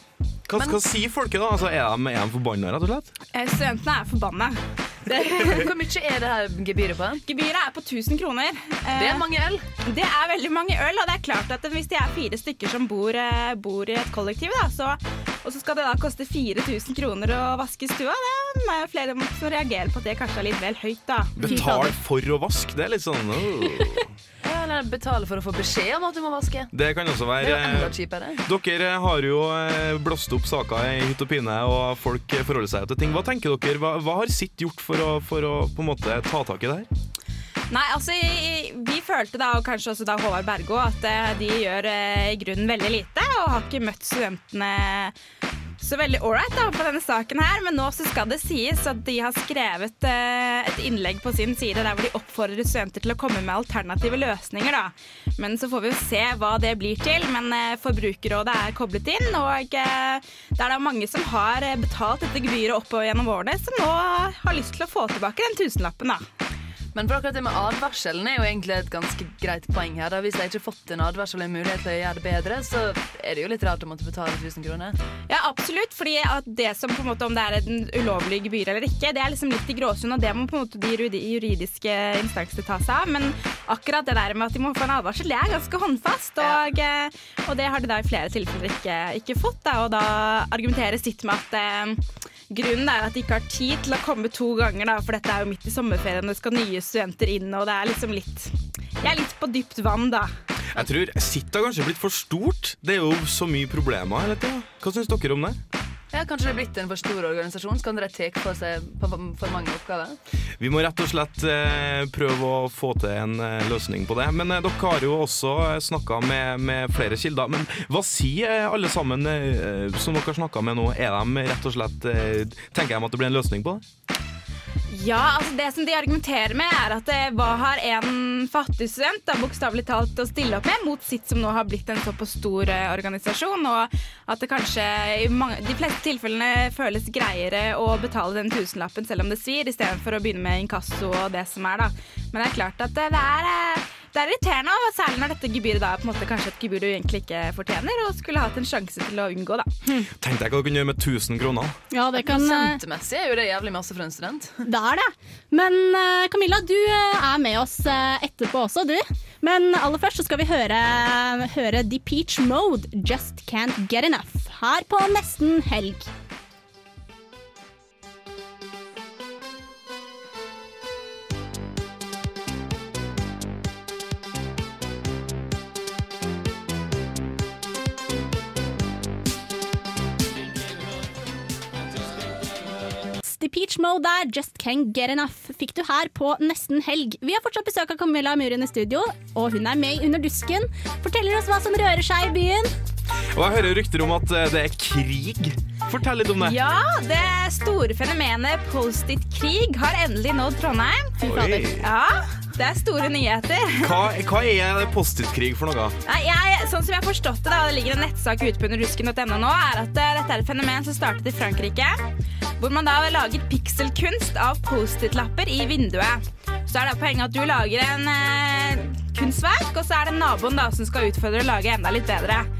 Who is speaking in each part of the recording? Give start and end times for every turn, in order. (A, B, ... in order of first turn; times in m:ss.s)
0:00.5-0:03.1 A
0:00.5-0:00.8 B
0:03.3-0:05.6 C
0:05.2-0:07.2 B
0:07.2-0:09.2 C
0:08.9-0:09.6 B
0:09.8-0:21.6 C
0:21.4-0:24.0 A
0:21.4-0:21.9 D
0:24.4-0:26.7 B
0:26.7-0:27.9 A
0:27.4-0:28.4 B
0:28.4-0:36.9 A
0:37.7-0:45.1 C
0:45.8-1:06.2 C
1:06.9-1:15.0 B
1:15.3-1:40.3 C
1:40.7-1:45.6 A
1:46.1-1:50.2 B
1:50.6-2:03.8 A
2:04.9-2:29.7 C
2:30.2-2:31.7 A
2:31.9-2:32.8 D
2:32.2-2:34.6 B
2:34.6-2:46.1 D
3:03.2-3:12.7 D
3:13.3-3:16.6 A
3:16.4-3:23.9 C
3:21.2-3:21.9 A
3:23.8-3:25.9 A
3:26.0-3:32.0 C
3:32.6-3:42.5 C